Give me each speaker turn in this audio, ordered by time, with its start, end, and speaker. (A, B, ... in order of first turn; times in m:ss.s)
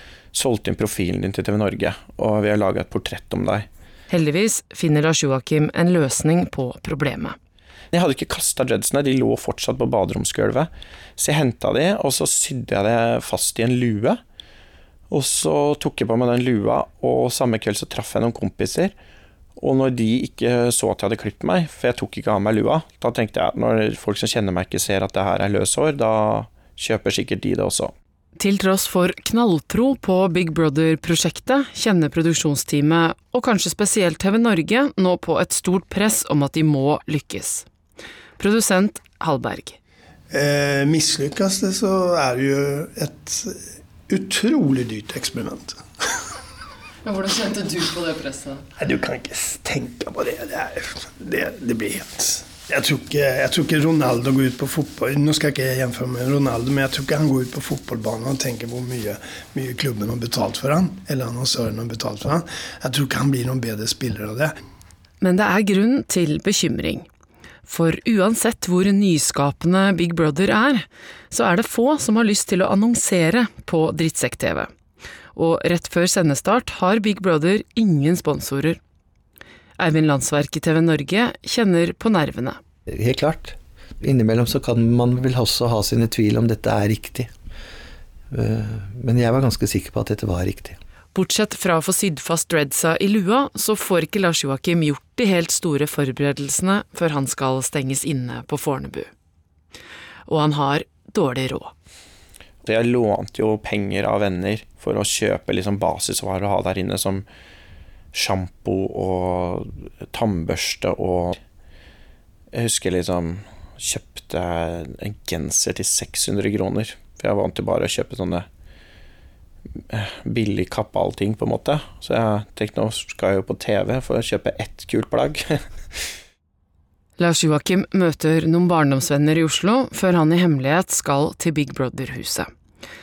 0:00.3-0:03.7 A
0:04.1-0:07.4 B
0:07.9-0:14.2 A
0:15.1-0:18.9 A
0:19.6-0:27.9 A
0:28.4-0:37.6 B
0:38.4-0:39.8 B
0:40.3-0:45.8 C
0:47.0-0:48.6 B
0:48.8-1:04.5 C
1:05.2-1:07.0 B
1:07.6-1:14.7 B
1:15.3-1:18.8 B
1:19.8-1:22.6 B
1:22.9-1:27.3 D
1:28.3-1:30.8 D
1:31.1-1:39.1 B
1:40.3-1:41.7 B
1:42.6-1:47.2 A
1:48.1-1:51.4 A
1:52.5-1:58.5 A
1:59.9-2:05.6 A
2:07.2-2:12.5 B